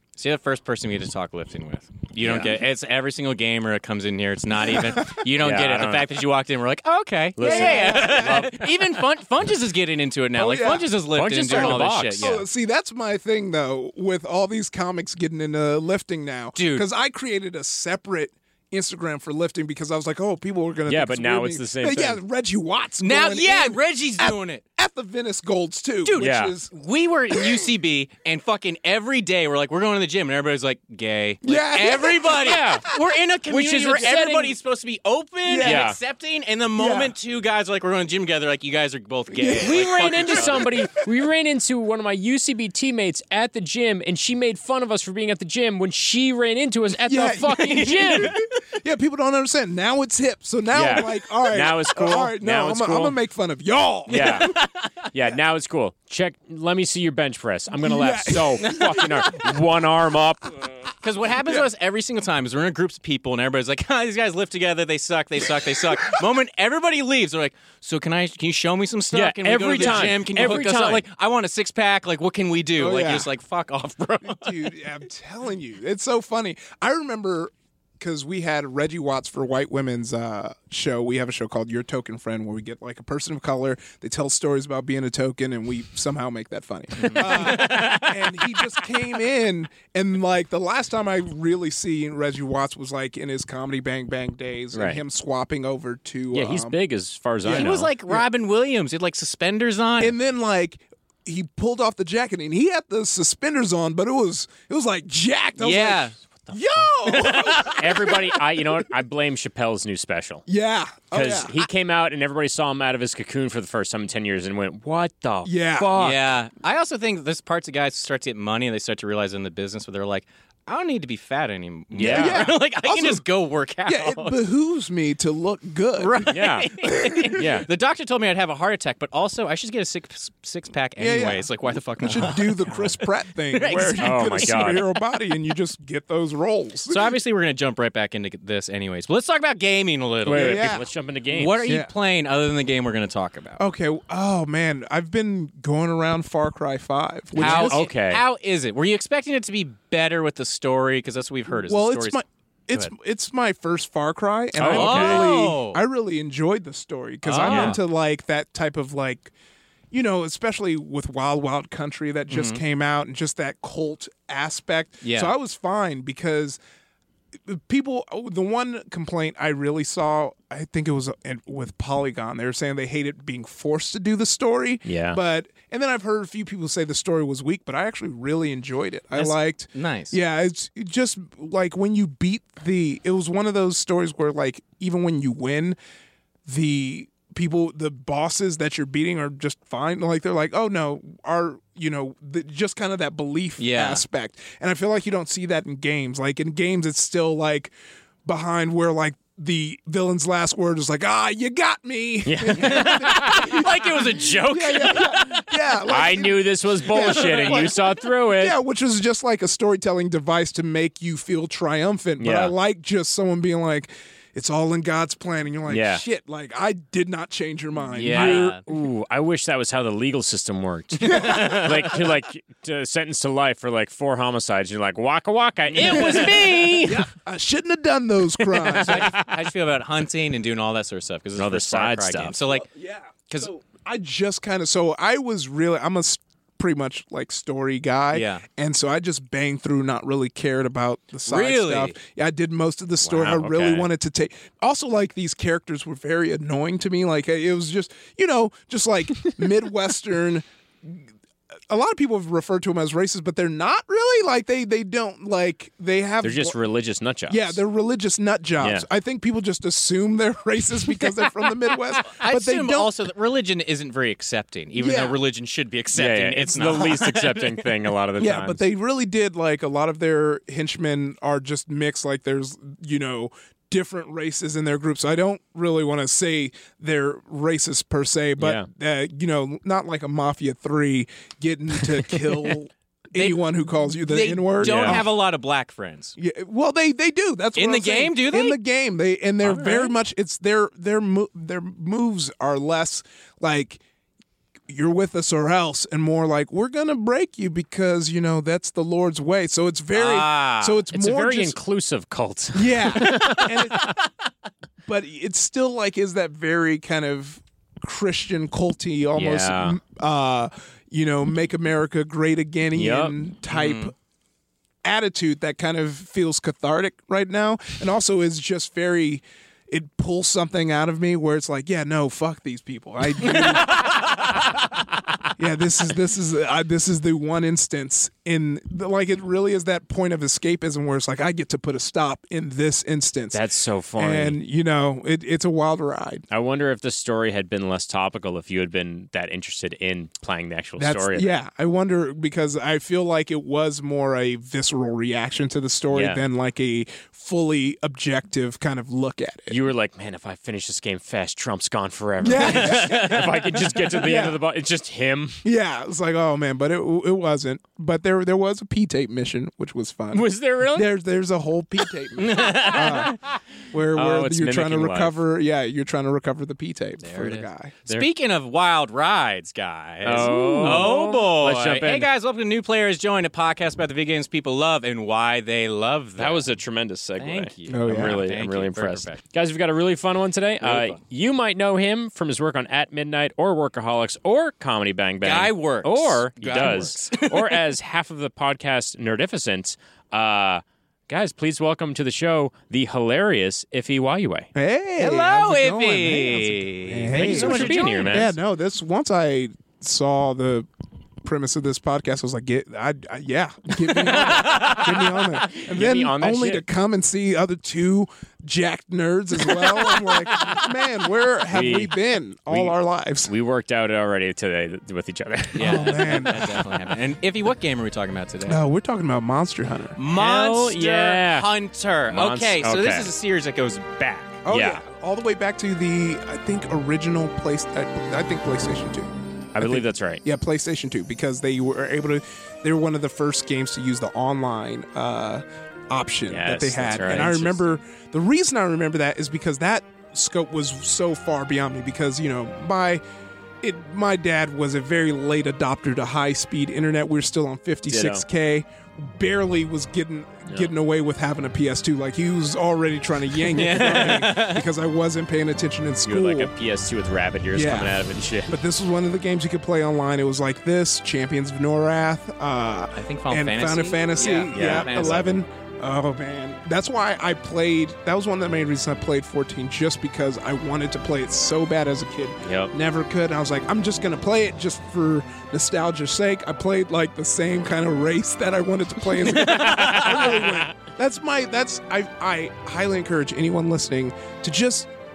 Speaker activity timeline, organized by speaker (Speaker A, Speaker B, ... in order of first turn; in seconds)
Speaker A: 0.2-12.4, 16.6-16.9, 23.0-24.6, 26.0-40.7, 47.5-48.4, 54.1-54.8, 61.0-74.6, 87.0-88.9, 97.5-100.2, 105.6-106.2, 107.1-107.9, 115.9-124.4, 126.0-132.9, 133.5-134.8, 136.8-140.7, 141.3-143.6, 147.4-152.2, 154.6-155.8, 157.2-157.8, 162.3-162.6, 165.0-165.3, 179.2-180.2, 193.6-194.0, 202.6-205.4, 207.1-207.7, 217.9-218.6, 221.0-222.0, 225.7-226.9, 228.5-232.7, 238.1-238.4, 241.2-242.0, 262.0-267.7, 283.1-283.4, 284.0-286.2, 287.6-288.6, 289.4-289.9, 299.9-300.9, 313.5-313.9, 323.2-324.3, 352.3-353.5, 362.2-363.2, 367.0-376.5, 377.2-379.2, 380.6-381.0, 385.2-387.6, 395.0-398.2, 404.1-404.8, 415.6-418.6, 419.9-424.4, 453.4-454.6, 462.9-465.4, 479.3-480.4
Speaker B: 2.2-2.5, 5.2-6.2, 7.4-9.0, 11.1-12.3, 20.9-22.2, 26.2-26.6, 32.3-32.9, 33.5-34.6, 35.6-36.0, 39.6-48.4, 50.7-53.2, 54.1-54.6, 55.1-60.9, 69.1-71.0, 94.7-95.0, 96.3-97.9, 107.1-110.4, 111.1-116.2, 122.0-122.5, 126.3-127.7, 134.0-134.9, 140.2-141.7, 147.4-148.2, 154.6-155.3, 157.4-157.8, 174.9-175.2, 202.2-203.7, 205.4-208.6, 212.2-212.5, 215.7-216.0, 218.0-227.1, 231.4-232.4, 243.1-243.9, 256.2-257.6, 258.6-258.9, 265.9-268.6, 278.4-278.7, 284.6-285.0, 300.9-304.0, 309.1-309.8, 312.8-313.2, 333.3-334.4, 336.3-341.3, 345.9-346.2, 349.5-355.4, 360.1-360.9, 363.9-365.1, 370.1-372.1, 376.2-394.5, 397.1-398.4, 404.3-406.6, 410.3-410.6, 411.5-411.9, 412.5-412.8, 413.3-416.9, 420.1-421.5, 422.1-423.1, 424.5-424.8, 429.5-430.2, 436.3-437.8, 447.9-448.2, 450.5-450.7, 456.1-458.6, 464.5-465.3, 472.4-472.7, 479.4-480.7
Speaker C: 7.4-8.5, 10.4-10.9, 11.5-26.7, 27.3-27.7, 31.4-32.9, 35.5-35.9, 36.8-37.1, 39.3-41.0, 47.0-54.5, 57.8-59.7, 69.8-70.1, 72.8-73.3, 74.3-96.8, 97.6-98.2, 100.0-108.9, 110.5-111.6, 115.5-116.2, 122.0-123.2, 123.9-127.5, 131.0-131.5, 132.0-137.2, 140.3-140.9, 141.7-141.9, 143.6-147.9, 151.6-159.3, 159.9-166.6, 167.4-185.8, 186.5-197.7, 198.2-218.6, 221.0-221.9, 225.8-229.2, 232.5-251.1, 251.7-256.6, 257.3-262.9, 264.8-265.2, 268.2-285.1, 286.2-293.8, 294.7-301.6, 302.5-303.9, 304.9-313.9, 314.9-323.9, 325.4-333.4, 334.0-336.2, 340.8-349.6, 352.2-354.4, 355.4-363.2, 363.7-367.8, 370.2-370.9, 377.7-378.2, 394.6-400.7, 401.2-413.3, 415.6-416.6, 418.4-420.0, 424.4-443.0, 443.6-456.5, 457.5-484.9